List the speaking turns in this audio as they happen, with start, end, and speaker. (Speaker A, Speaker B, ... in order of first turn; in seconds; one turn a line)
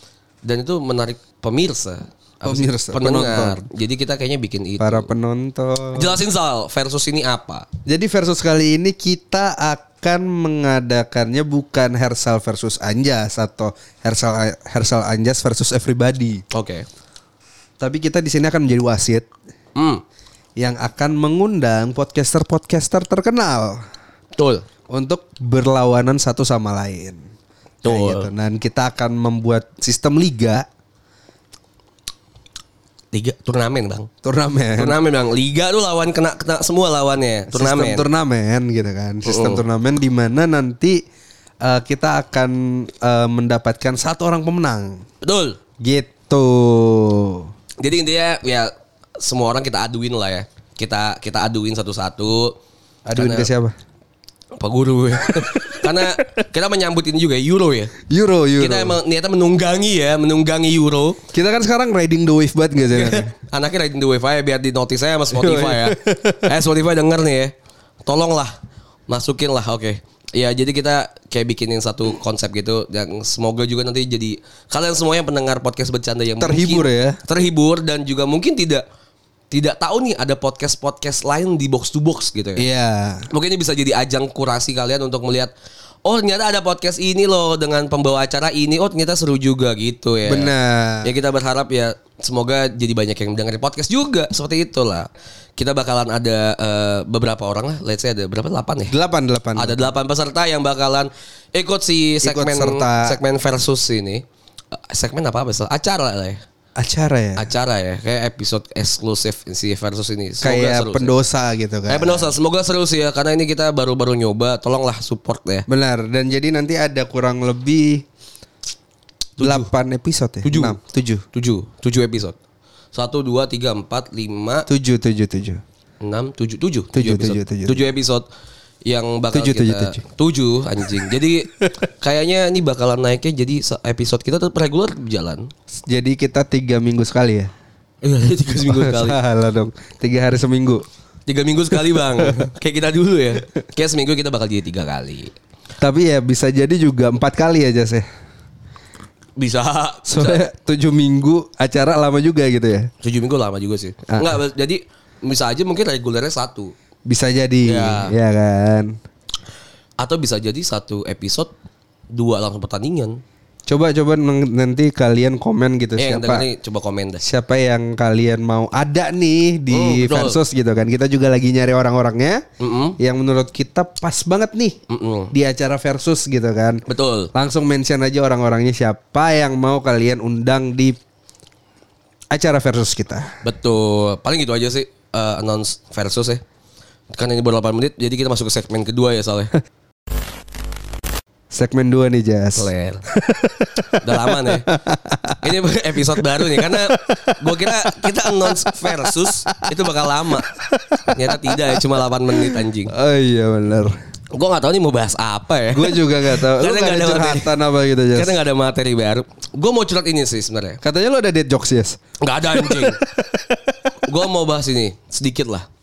Speaker A: 0.4-5.1
Speaker B: 2.5-3.7
Speaker B: 4.8-6.2
Speaker A: 5.9-7.7
Speaker B: 7.9-16.4
Speaker A: 16.5-16.9
Speaker B: 17.8-19.3
Speaker A: 19.8-20.0
Speaker B: 20.6-23.8
Speaker A: 24.4-24.6
Speaker B: 24.9-27.2
Speaker A: 27.8-28.3
Speaker B: 27.9-30.7
Speaker A: 33.1-34.1
Speaker B: 34.2-35.0
Speaker A: 34.8-38.1
Speaker B: 37.5-41.0
Speaker A: 39.3-39.6
Speaker B: 41.6-45.0
Speaker A: 45.2-45.6
Speaker B: 45.8-47.5
Speaker A: 47.8-52.6
Speaker B: 53.1-53.8
Speaker A: 53.2-53.5
Speaker A: 54.6-57.9
Speaker B: 58.1-59.0
Speaker A: 58.6-61.2
Speaker B: 61.3-63.3
Speaker A: 62.9-67.5
Speaker B: 65.3-66.5
Speaker A: 68.1-68.5
Speaker A: 69.1-78.8
Speaker B: 76.4-77.2
Speaker A: 79.5-82.6
Speaker B: 82.6-83.3
Speaker A: 83.3-85.5
Speaker A: 86.0-90.5
Speaker B: 90.3-91.1
Speaker A: 91.0-98.9
Speaker B: 98.9-99.8
Speaker A: 99.6-104.2
Speaker B: 102.2-103.2
Speaker A: 104.8-106.4
Speaker B: 106.8-107.5
Speaker A: 107.4-111.1
Speaker B: 110.4-112.3
Speaker A: 111.9-115.7
Speaker B: 115.7-118.0
Speaker A: 119.4-119.7
Speaker B: 119.4-121.2
Speaker A: 120.4-120.8
Speaker A: 121.3-122.3
Speaker A: 122.9-124.7
Speaker B: 124.7-125.6
Speaker A: 126.0-128.3
Speaker B: 126.9-127.8
Speaker A: 128.9-135.5
Speaker B: 129.3-130.0
Speaker B: 135.7-137.5
Speaker A: 138.0-139.2
Speaker B: 138.7-140.8
Speaker A: 141.3-145.3
Speaker B: 142.2-142.4
Speaker B: 145.8-148.1
Speaker A: 149.4-150.4
Speaker B: 150.1-152.9
Speaker A: 153.0-156.7
Speaker B: 154.1-154.3
Speaker B: 157.1-158.9
Speaker A: 157.6-158.2
Speaker A: 160.0-161.5
Speaker A: 162.1-163.2
Speaker B: 163.7-166.5
Speaker A: 166.0-167.2
Speaker B: 167.2-172.4
Speaker A: 169.7-170.4
Speaker A: 172.6-173.0
Speaker B: 173.0-174.8
Speaker A: 174.9-175.3
Speaker B: 175.3-176.8
Speaker A: 176.9-177.3
Speaker B: 177.3-181.0
Speaker B: 182.3-183.3
Speaker A: 183.4-186.4
Speaker A: 187.2-189.5
Speaker B: 191.5-195.4
Speaker A: 192.6-193.0
Speaker A: 194.0-194.7
Speaker A: 195.4-200.5
Speaker B: 196.2-197.7
Speaker B: 198.8-199.5
Speaker B: 200.5-201.8
Speaker A: 201.1-202.9
Speaker B: 202.4-203.9
Speaker A: 204.3-207.6
Speaker B: 205.7-208.4
Speaker A: 208.1-210.8
Speaker B: 210.8-212.0
Speaker A: 212.2-213.0
Speaker B: 212.6-213.7
Speaker A: 214.1-215.7